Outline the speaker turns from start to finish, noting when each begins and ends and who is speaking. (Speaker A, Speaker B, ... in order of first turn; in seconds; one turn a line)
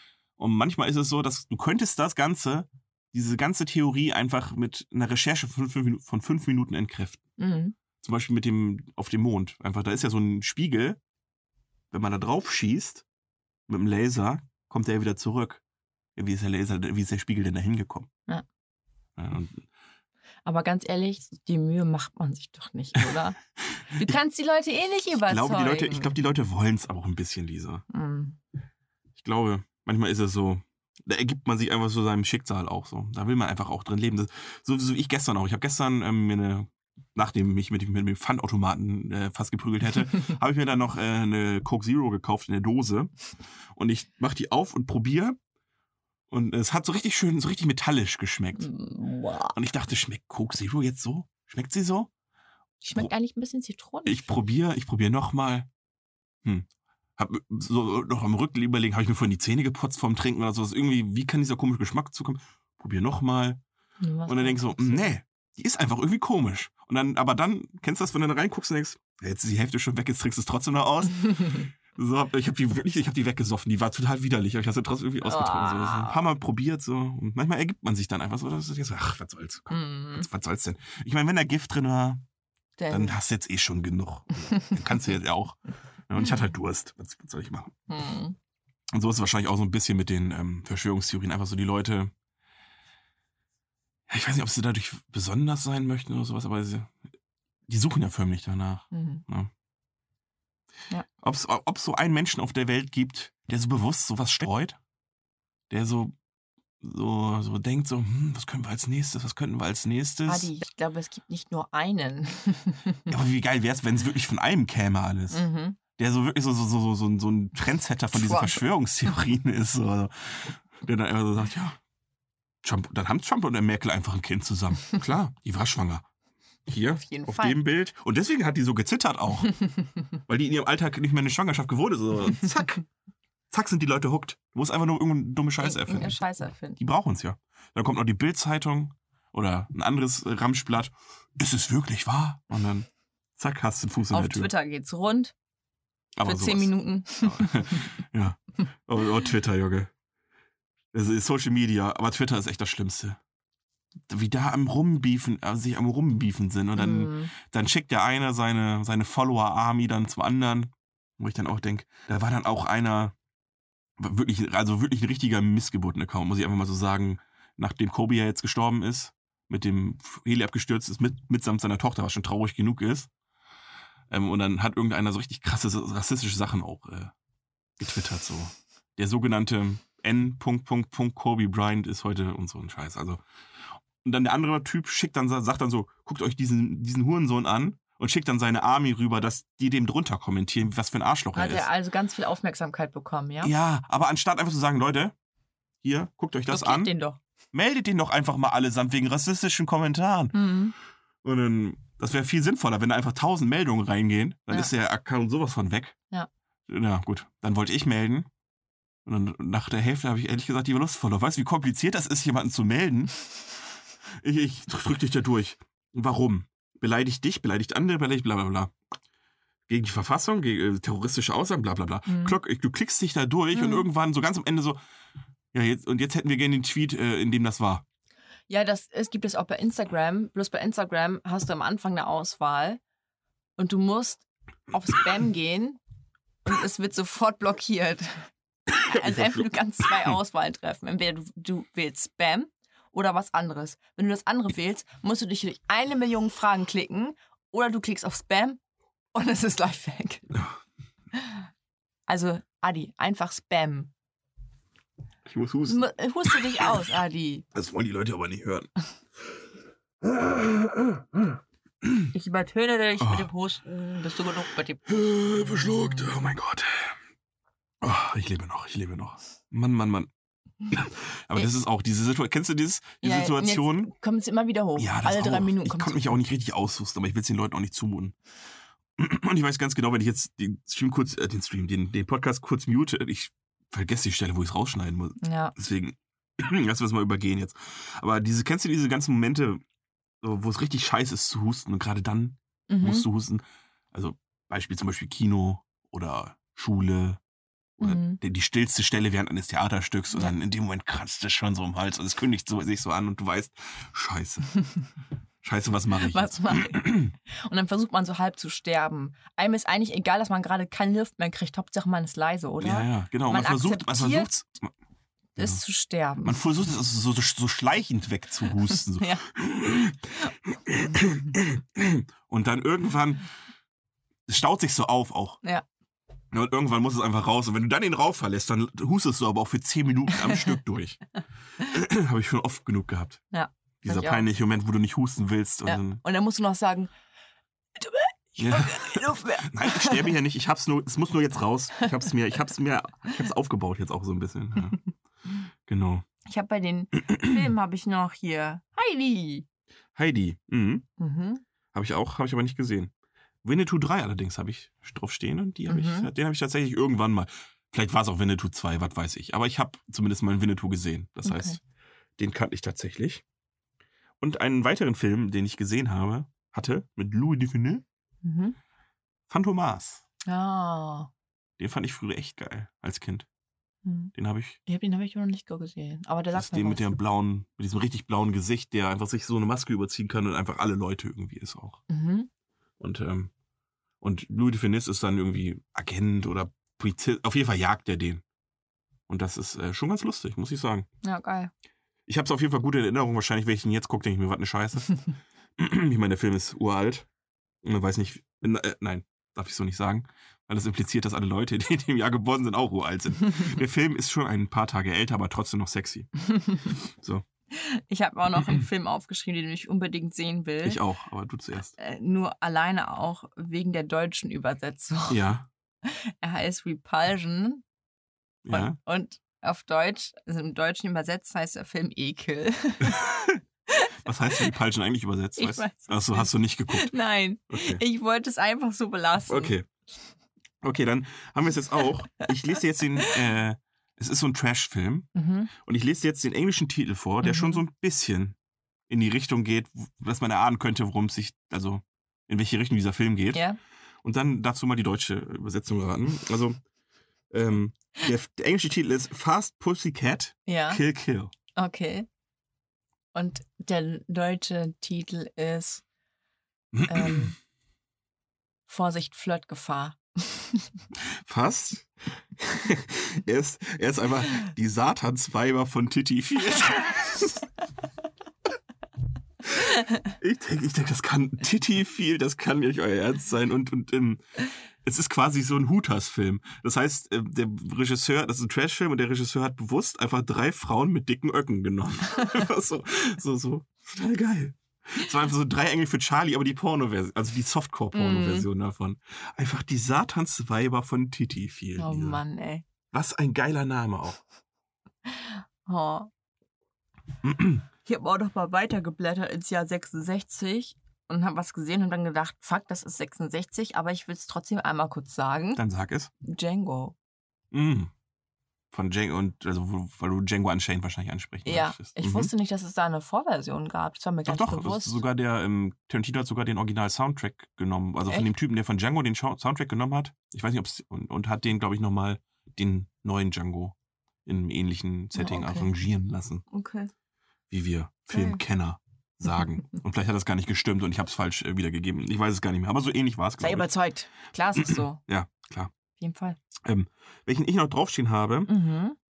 Speaker A: 0.4-7.2
Speaker B: 7.4-7.7
Speaker A: 8.0-11.0
Speaker A: 11.9-13.0
Speaker A: 13.7-15.6
Speaker A: 16.1-18.1
Speaker A: 19.1-19.6
Speaker B: 20.4-23.4
Speaker B: 23.9-26.1
Speaker A: 25.3-27.8
Speaker B: 27.9-28.4
Speaker A: 29.1-43.1
Speaker A: 43.7-45.4
Speaker A: 46.3-48.7
Speaker B: 48.5-49.6
Speaker A: 49.5-52.1
Speaker B: 52.8-54.4
Speaker A: 54.0-55.7
Speaker A: 56.4-63.6
Speaker B: 64.0-65.1
Speaker A: 64.3-82.2
Speaker B: 75.2-76.2
Speaker B: 79.7-80.3
Speaker B: 82.8-83.2
Speaker A: 82.9-87.7
Speaker B: 87.9-88.3
Speaker A: 88.9-92.1
Speaker A: 94.1-96.9
Speaker A: 97.7-99.5
Speaker B: 98.9-99.2
Speaker A: 101.2-104.8
Speaker A: 105.7-106.1
Speaker A: 106.8-110.5
Speaker B: 110.2-113.0
Speaker A: 113.1-121.8
Speaker B: 115.3-115.8
Speaker B: 118.1-118.6
Speaker A: 122.6-126.0
Speaker A: 126.7-129.5
Speaker B: 127.0-127.6
Speaker A: 130.3-132.8
Speaker A: 133.5-136.2
Speaker B: 135.6-136.8
Speaker A: 136.8-144.5
Speaker B: 144.1-145.3
Speaker A: 146.2-149.9
Speaker B: 146.2-147.9
Speaker A: 150.9-153.2
Speaker A: 154.1-163.1
Speaker B: 156.7-157.3
Speaker A: 164.0-173.1
Speaker A: 174.1-177.1
Speaker A: 177.8-183.2
Speaker A: 184.0-191.7
Speaker B: 191.3-193.5
Speaker A: 193.4-195.1
Speaker A: 195.8-196.9
Speaker B: 196.5-197.2
Speaker A: 197.5-200.4
Speaker B: 200.3-200.7
Speaker A: 201.2-205.9
Speaker A: 206.7-208.3
Speaker A: 209.0-213.2
Speaker A: 214.2-218.7
Speaker A: 219.7-224.8
Speaker B: 222.1-222.4
Speaker B: 223.5-223.8
Speaker A: 225.5-227.8
Speaker B: 228.5-232.8
Speaker B: 233.6-235.8
Speaker B: 236.4-238.3
Speaker A: 238.7-240.2
Speaker B: 238.8-248.6
Speaker B: 249.1-250.3
Speaker B: 252.1-253.9
Speaker A: 255.2-256.7
Speaker B: 255.7-257.4
Speaker A: 257.5-258.7
Speaker A: 260.0-261.2
Speaker B: 262.1-266.1
Speaker A: 263.0-263.3
Speaker A: 264.9-266.9
Speaker A: 267.8-270.1
Speaker A: 270.7-273.9
Speaker B: 273.0-276.0
Speaker A: 274.8-278.1
Speaker A: 279.0-289.6
Speaker B: 285.2-285.5
Speaker A: 290.2-297.2
Speaker B: 292.7-293.1
Speaker A: 297.8-304.5
Speaker B: 297.8-298.2
Speaker A: 305.4-307.1
Speaker B: 306.1-314.3
Speaker A: 312.6-314.7
Speaker B: 315.4-316.4
Speaker A: 316.2-323.2
Speaker B: 319.0-319.2
Speaker A: 324.3-325.4
Speaker A: 326.3-331.0
Speaker A: 331.6-333.2
Speaker B: 333.3-334.3
Speaker A: 333.8-336.0
Speaker B: 335.6-336.9
Speaker B: 337.8-340.1
Speaker A: 338.4-344.8
Speaker A: 345.6-346.0
Speaker B: 346.2-349.4
Speaker A: 347.1-347.4
Speaker A: 349.9-350.9
Speaker B: 351.0-351.4
Speaker A: 351.7-352.9
Speaker A: 353.4-361.6
Speaker B: 355.7-356.1
Speaker B: 361.2-361.6
Speaker A: 362.2-363.2
Speaker A: 364.2-367.8
Speaker B: 368.2-368.6
Speaker A: 369.3-370.0
Speaker B: 370.3-371.1
Speaker A: 371.6-373.3
Speaker B: 373.8-374.1
Speaker A: 374.1-374.6
Speaker B: 374.6-376.9
Speaker A: 376.3-381.8
Speaker B: 381.9-382.3
Speaker A: 382.8-383.3
Speaker A: 384.0-388.2
Speaker A: 389.1-390.9
Speaker B: 391.0-391.5
Speaker A: 392.1-394.9
Speaker A: 395.6-397.1
Speaker A: 397.6-406.1
Speaker B: 406.2-406.8
Speaker A: 406.7-407.2
Speaker B: 407.5-410.8
Speaker A: 410.6-411.7
Speaker B: 411.8-415.2
Speaker A: 415.1-415.5
Speaker B: 415.8-417.6
Speaker A: 418.4-418.8
Speaker B: 418.5-423.1
Speaker A: 422.8-423.4
Speaker B: 423.7-424.5
Speaker A: 424.0-426.9
Speaker B: 425.4-429.5
Speaker A: 427.5-427.8
Speaker A: 429.3-429.6
Speaker A: 430.6-438.4
Speaker B: 435.1-435.5
Speaker B: 437.2-437.6
Speaker A: 438.9-443.4
Speaker A: 444.0-446.6
Speaker A: 447.3-451.3
Speaker B: 450.4-450.8
Speaker B: 451.6-452.1
Speaker B: 453.1-455.8
Speaker A: 456.7-457.3
Speaker B: 456.9-457.3
Speaker B: 458.7-460.7
Speaker A: 461.2-467.4
Speaker A: 469.9-474.2
Speaker A: 474.8-492.2
Speaker B: 487.9-488.5
Speaker B: 491.8-492.6
Speaker A: 492.9-494.2
Speaker B: 495.1-496.1
Speaker A: 497.2-497.6
Speaker B: 497.8-505.6
Speaker A: 505.5-506.1
Speaker B: 506.2-506.9
Speaker A: 507.5-507.9
Speaker A: 508.7-512.3
Speaker B: 511.4-515.0
Speaker A: 514.2-523.7
Speaker A: 524.2-526.4
Speaker B: 525.1-525.7
Speaker B: 526.5-526.9
Speaker A: 527.5-533.7
Speaker B: 528.1-528.4
Speaker B: 533.4-535.0
Speaker A: 534.6-535.7
Speaker B: 536.0-536.4
Speaker A: 536.6-538.5
Speaker B: 538.5-539.0